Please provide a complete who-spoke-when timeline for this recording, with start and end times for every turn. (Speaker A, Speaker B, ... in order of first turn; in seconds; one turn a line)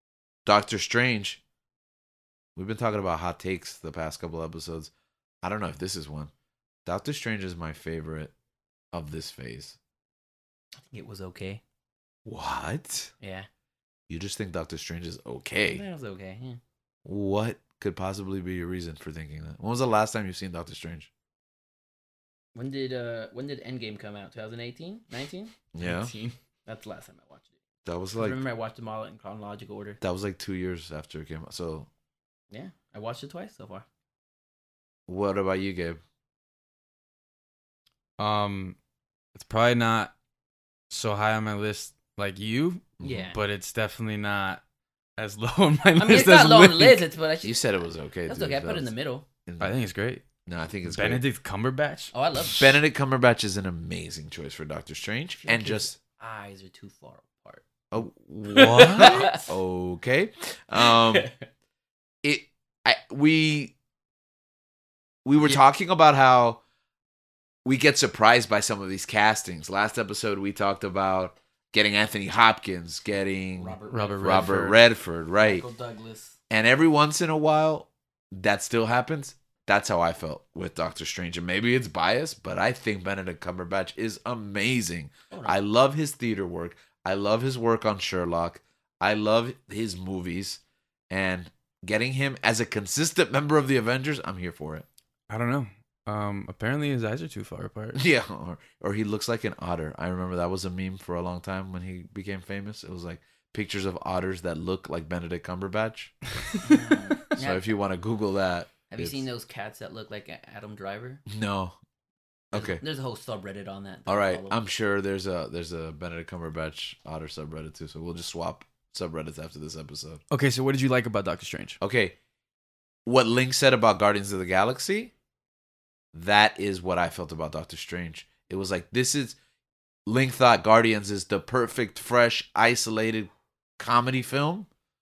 Speaker A: 0.5-1.4
Speaker A: 2.5-4.9
Speaker A: 5.4-6.3
Speaker A: 6.8-8.3
Speaker A: 8.9-9.8
Speaker B: 10.8-11.6
Speaker A: 12.2-13.1
Speaker B: 13.2-13.5
Speaker A: 14.1-15.8
Speaker B: 15.7-16.6
Speaker A: 17.0-21.1
Speaker B: 22.5-27.5
Speaker A: 25.7-26.1
Speaker A: 27.8-28.4
Speaker B: 28.1-30.0
Speaker A: 30.0-31.9
Speaker B: 32.5-33.9
Speaker A: 35.1-36.0
Speaker C: 38.2-38.8
Speaker C: 39.3-40.1
Speaker C: 40.9-44.6
Speaker A: 43.0-43.3
Speaker B: 43.0-43.4
Speaker C: 45.2-47.0
Speaker B: 46.0-47.6
Speaker A: 47.4-48.9
Speaker B: 48.3-49.2
Speaker A: 49.5-49.8
Speaker C: 49.6-50.2
Speaker A: 50.5-51.2
Speaker C: 50.9-52.1
Speaker B: 52.1-52.8
Speaker A: 52.4-56.0
Speaker B: 55.4-57.6
Speaker A: 57.9-61.3
Speaker B: 58.5-59.5
Speaker C: 58.5-59.3
Speaker B: 60.8-61.4
Speaker A: 62.2-63.7
Speaker A: 65.2-66.6
Speaker A: 67.6-75.6
Speaker B: 73.6-74.7
Speaker C: 73.9-74.8
Speaker B: 75.4-76.4
Speaker A: 76.5-94.8
Speaker B: 85.3-85.6
Speaker C: 95.3-98.0
Speaker A: 97.9-106.1
Speaker C: 106.4-107.0
Speaker B: 106.6-107.7
Speaker A: 107.3-109.2
Speaker B: 108.9-111.2
Speaker A: 111.3-111.8
Speaker A: 112.5-112.8
Speaker B: 112.5-114.6
Speaker A: 114.1-120.2
Speaker C: 120.3-121.8
Speaker A: 121.8-122.1
Speaker A: 123.0-125.1
Speaker A: 126.1-129.4
Speaker A: 130.1-134.7